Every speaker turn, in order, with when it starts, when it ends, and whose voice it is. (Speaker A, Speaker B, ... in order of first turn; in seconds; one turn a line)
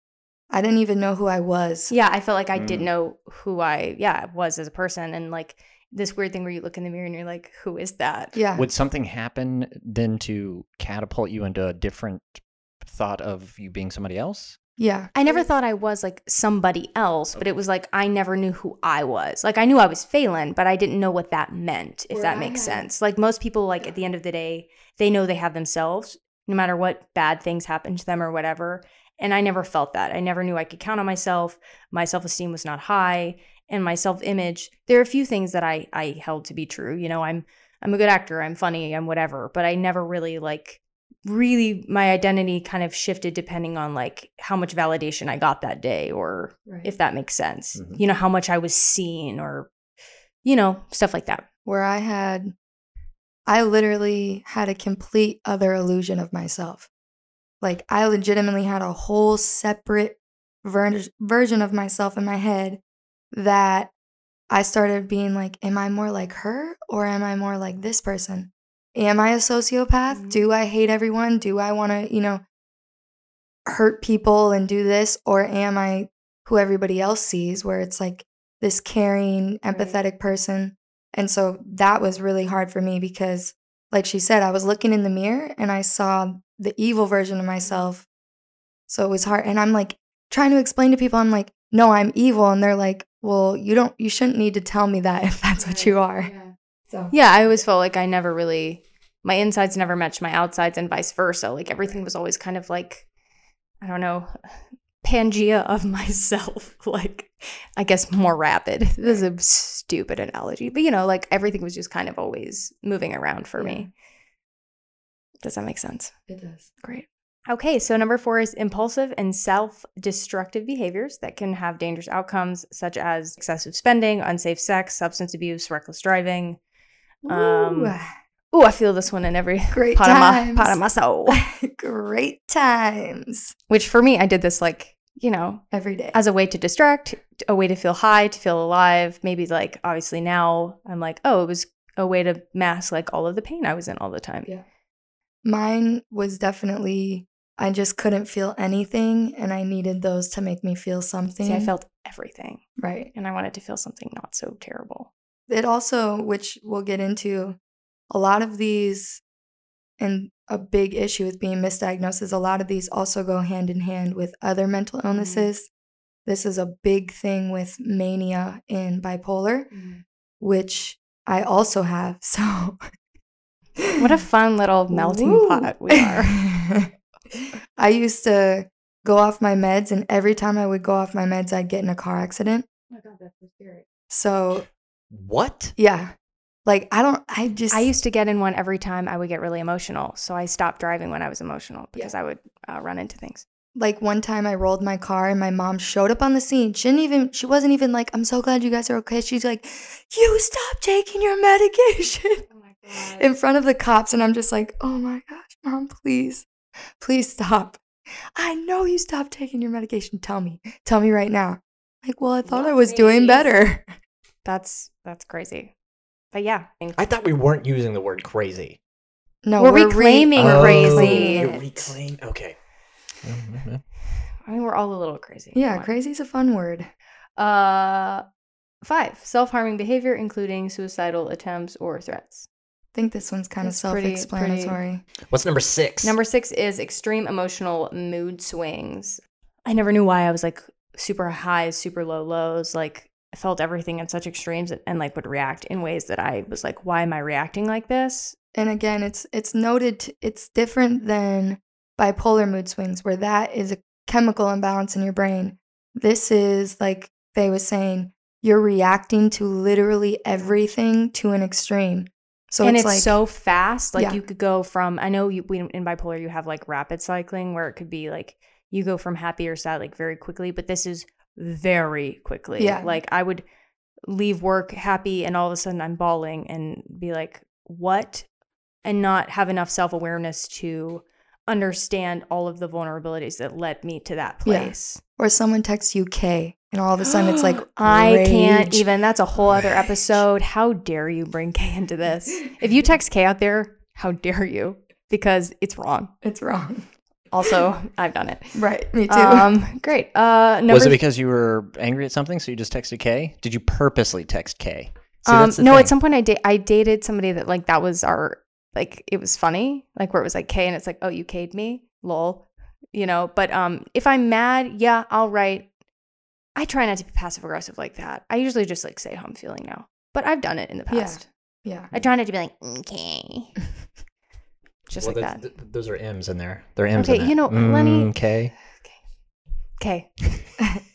Speaker A: 0.5-1.9
Speaker B: 1.9-8.4
Speaker C: 2.5-2.9
Speaker A: 8.3-8.7
Speaker C: 8.6-14.6
Speaker A: 14.8-15.4
Speaker B: 15.1-49.7
Speaker A: 22.1-22.8
Speaker C: 47.8-48.0
Speaker B: 50.4-51.4
Speaker A: 51.6-52.5
Speaker A: 53.5-56.9
Speaker A: 57.6-62.8
Speaker A: 63.3-63.9
Speaker A: 64.5-72.4
Speaker B: 70.1-70.4
Speaker A: 73.7-88.1
Speaker B: 79.7-79.9
Speaker A: 88.9-96.3
Speaker B: 95.6-96.5
Speaker B: 97.1-103.1
Speaker B: 103.8-113.9
Speaker A: 109.0-109.2
Speaker A: 113.6-113.9
Speaker B: 115.4-116.1
Speaker A: 116.3-116.7
Speaker B: 116.8-126.6
Speaker A: 127.2-128.1
Speaker B: 127.3-128.0
Speaker B: 128.5-131.4
Speaker A: 129.7-133.5
Speaker B: 133.7-135.6
Speaker A: 135.7-136.2
Speaker B: 136.1-144.5
Speaker A: 145.4-151.7
Speaker B: 151.4-152.6
Speaker A: 152.8-153.1
Speaker B: 153.1-155.1
Speaker A: 155.5-157.6
Speaker A: 158.1-159.2
Speaker A: 160.0-165.7
Speaker B: 165.1-165.5
Speaker A: 166.2-169.7
Speaker B: 169.7-170.0
Speaker A: 170.4-172.8
Speaker A: 173.8-174.0
Speaker B: 174.0-176.4
Speaker A: 174.9-182.7
Speaker B: 182.9-183.8
Speaker A: 184.1-184.7
Speaker C: 185.1-185.7
Speaker A: 185.8-186.1
Speaker A: 186.7-187.9
Speaker B: 187.7-193.4
Speaker A: 193.7-202.4
Speaker B: 202.5-203.3
Speaker A: 203.0-206.5
Speaker A: 207.0-207.8
Speaker A: 208.3-213.8
Speaker B: 212.4-213.4
Speaker B: 214.4-215.7
Speaker B: 216.3-217.0
Speaker C: 216.9-218.8
Speaker A: 219.4-221.6
Speaker B: 219.6-221.9
Speaker C: 220.3-222.6
Speaker C: 223.2-223.8
Speaker B: 224.4-225.9
Speaker A: 225.5-226.9
Speaker B: 227.4-228.2
Speaker B: 228.8-232.5
Speaker A: 232.9-235.0
Speaker B: 233.6-234.8
Speaker C: 235.3-236.2
Speaker B: 236.0-248.3
Speaker A: 248.5-263.1
Speaker B: 262.6-273.4
Speaker A: 272.6-273.0
Speaker B: 274.1-278.3
Speaker B: 278.8-285.0
Speaker A: 284.4-288.9
Speaker B: 287.3-296.1
Speaker C: 289.5-289.8
Speaker A: 296.2-296.9
Speaker B: 297.3-301.0
Speaker A: 298.5-299.5
Speaker C: 300.7-305.9
Speaker B: 305.2-315.7
Speaker B: 316.6-321.3
Speaker A: 320.9-321.9
Speaker B: 321.9-323.5
Speaker B: 324.9-325.4
Speaker C: 325.0-328.6
Speaker B: 327.0-328.1
Speaker B: 328.7-329.0
Speaker B: 329.8-330.5